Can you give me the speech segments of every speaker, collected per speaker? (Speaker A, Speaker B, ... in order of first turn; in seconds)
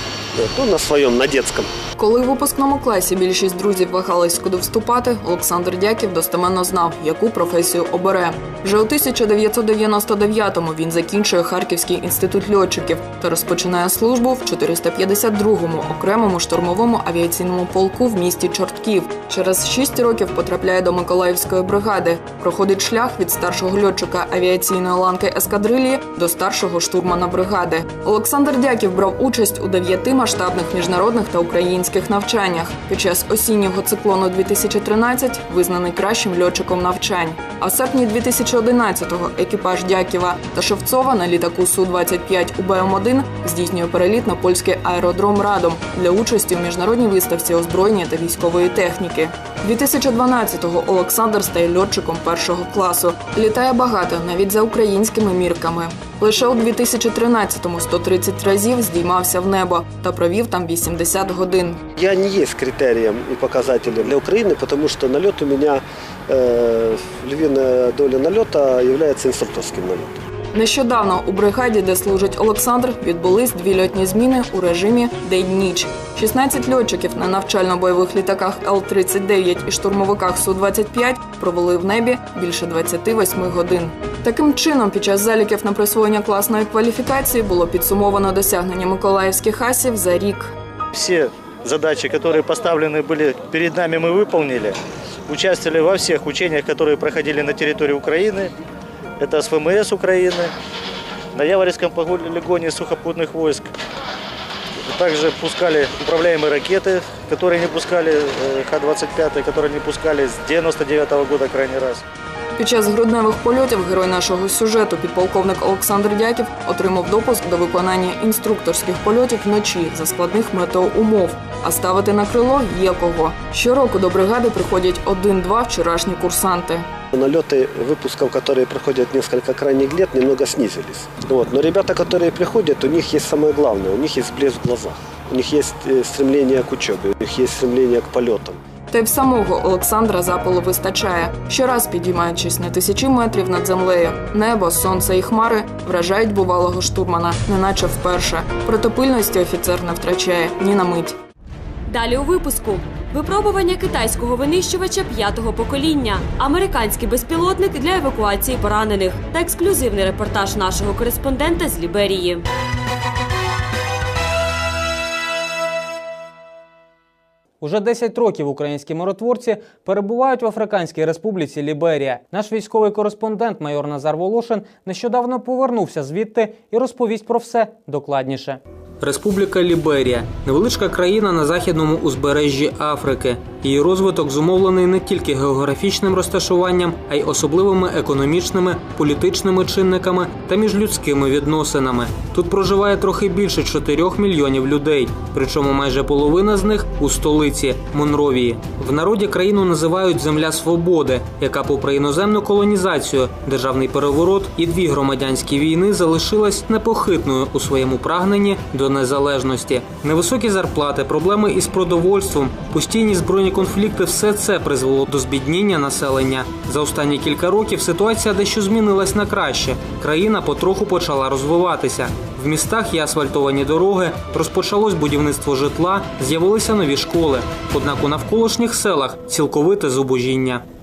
Speaker A: 0.3-1.7, 61.9-70.2, 127.1-138.6
Speaker B: 2.0-61.8, 70.5-90.5, 112.6-126.9, 138.9-151.1
Speaker C: 90.9-98.5, 99.2-100.5, 101.3-103.7, 104.8-112.0
Speaker D: 151.9-162.4
Speaker E: 167.6-230.6